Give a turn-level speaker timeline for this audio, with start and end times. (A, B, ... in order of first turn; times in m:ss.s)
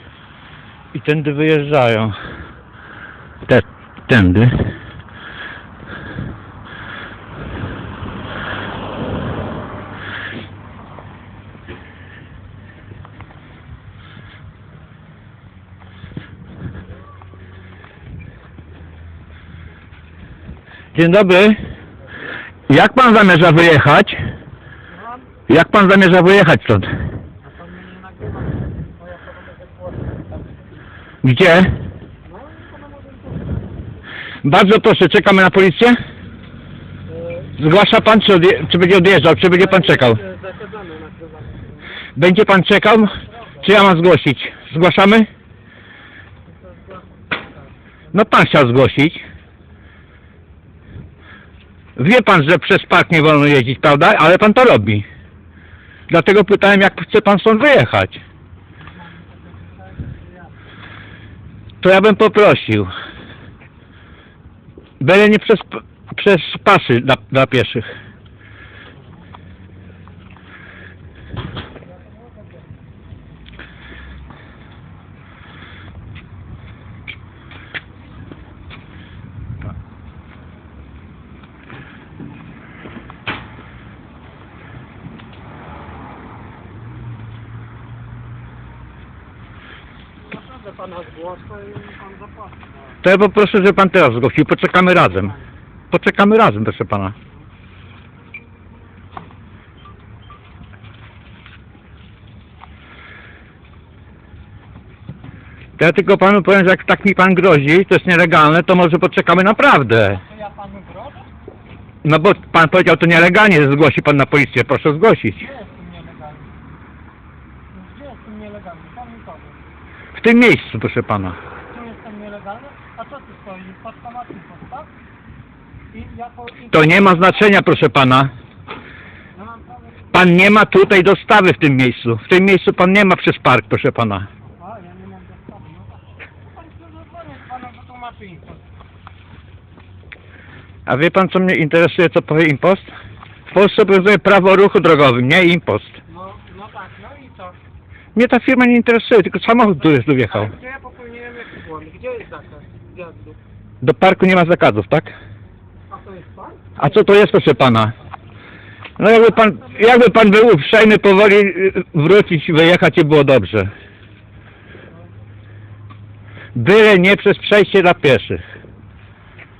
0:00.9-0:02.2 A
0:03.5-0:04.7 A
0:20.9-0:21.6 A
0:22.7-0:24.2 A
0:24.9-0:25.2 B
0:25.5-0:26.9 A
0:27.4-0:30.6 B
0:31.2-0:31.7 A
0:32.2-0:33.7 B
0:34.4-0:36.0 A
0:37.1-0:37.5 B
0:37.6-0:40.2 A
0:39.5-0:42.0 B
0:42.2-0:45.3 A
0:46.5-0:47.7 B
0:48.1-0:49.2 A
0:52.0-0:55.0 A
0:56.1-0:58.2 A
0:58.9-1:00.5 B
1:01.8-1:02.9 A
1:05.0-1:07.9 A
1:30.2-1:32.8 B
1:33.0-1:35.3 A
1:35.9-1:37.1 A
1:45.8-1:50.2 A
1:50.1-1:51.3 B
1:52.0-1:55.4 A
1:55.4-1:56.5 B
1:57.7-1:59.6 B
2:00.1-2:01.4 A
2:01.7-2:04.9 B
2:05.9-2:07.4 B
2:06.7-2:08.3 A
2:09.3-2:10.2 B
2:10.1-2:14.3 A
2:14.4-2:18.6 B
2:20.8-2:22.9 A
2:23.5-2:26.0 A
2:26.1-2:27.6 B
2:28.1-2:30.5 A
2:30.3-2:33.4 B
2:33.8-2:35.1 A
2:35.9-2:36.9 B
2:36.8-2:37.9 A
2:39.0-2:43.7 A
2:39.4-2:39.8 B
2:46.5-2:48.4 A